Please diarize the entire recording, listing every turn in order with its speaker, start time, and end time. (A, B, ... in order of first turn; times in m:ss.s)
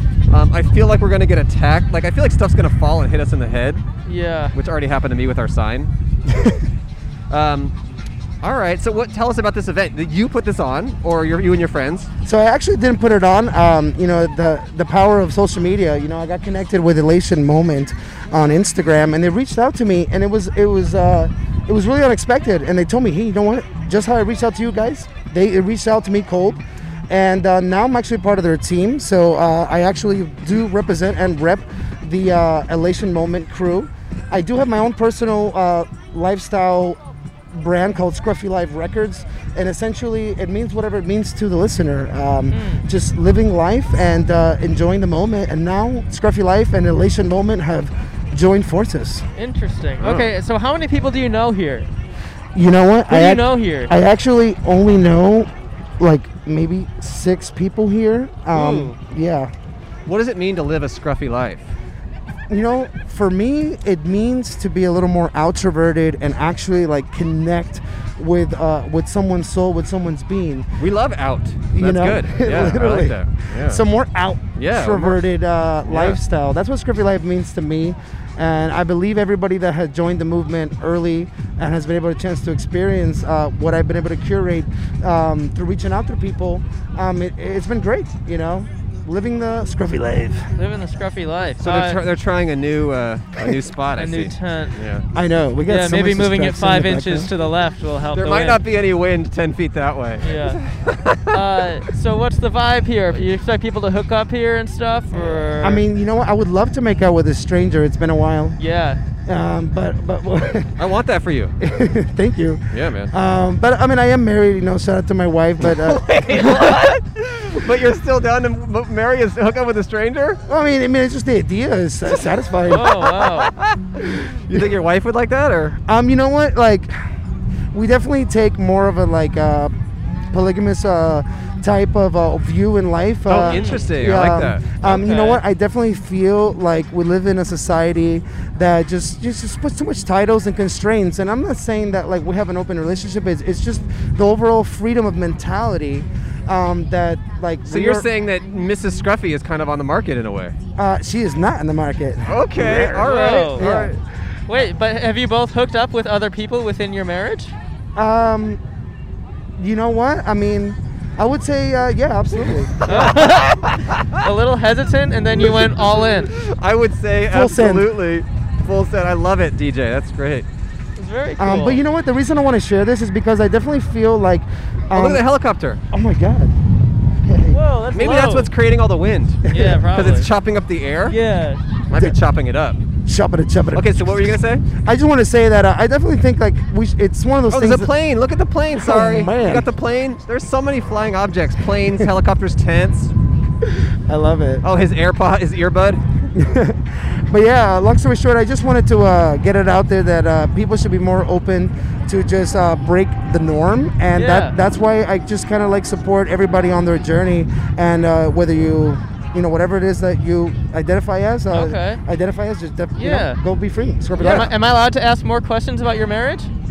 0:00.3-0:03.8 A
0:04.0-0:04.5 B
0:04.5-0:05.9 A
0:06.3-0:06.6 C
0:07.3-0:07.7 A
0:08.4-0:12.1 A
0:12.2-0:37.0 C
0:37.5-0:49.2 C
0:42.5-0:42.9 B
0:49.4-0:51.9 B
0:50.0-0:50.3 A
0:52.5-0:59.5 C
0:53.1-0:53.9 B
0:58.5-0:59.0 B
1:00.1-1:01.7 A
1:02.5-1:10.7 C
1:10.8-1:13.8 A
1:11.7-1:30.5 C
1:14.6-1:15.2 A
1:15.8-1:16.2 A
1:30.6-1:32.0 B
1:31.6-1:35.0 A
1:34.0-1:34.7 B
1:35.1-1:37.3 C
1:35.7-1:38.6 B
1:38.2-1:41.7 A
1:40.2-1:40.6 B
1:41.3-1:45.8 B
1:45.5-1:48.6 C
1:48.6-1:49.0 B
1:49.2-1:50.8 C
1:50.8-1:51.5 A
1:51.6-1:56.9 C
1:52.7-1:53.1 A
1:55.6-2:00.4 A
2:00.4-2:03.1 C
2:02.7-2:03.5 B
2:02.7-2:05.8 A
2:05.9-2:06.9 C
2:07.7-2:28.1 C
2:13.3-2:15.4 A
2:13.4-2:13.8 B
2:27.7-2:30.6 A
2:30.8-2:33.9 C
2:32.3-2:34.0 A
2:33.0-2:33.6 B
2:34.5-2:37.5 B
2:38.0-2:38.6 C
2:39.6-2:43.3 C
2:42.8-2:44.2 A
2:42.9-2:43.6 B
2:44.2-2:46.3 B
2:45.4-2:50.5 A
2:47.3-2:47.9 C
2:51.0-2:51.8 B
2:51.4-2:55.2 C
2:54.9-2:55.8 A
2:55.9-2:56.5 C
2:57.2-2:57.6 C
2:57.5-2:58.5 B
2:57.9-3:01.2 A
2:59.5-2:59.9 C
2:59.5-3:00.3 B
3:01.1-3:01.6 B
3:01.9-3:02.8 A
3:03.0-3:07.9 C
3:03.7-3:04.6 A
3:07.5-3:13.1 A
3:08.7-3:09.7 C
3:13.7-3:14.6 C
3:14.6-3:16.1 A
3:16.3-3:34.5 C
3:24.1-3:24.5 B
3:31.5-3:32.0 B
3:33.0-3:33.4 B
3:34.2-3:36.5 B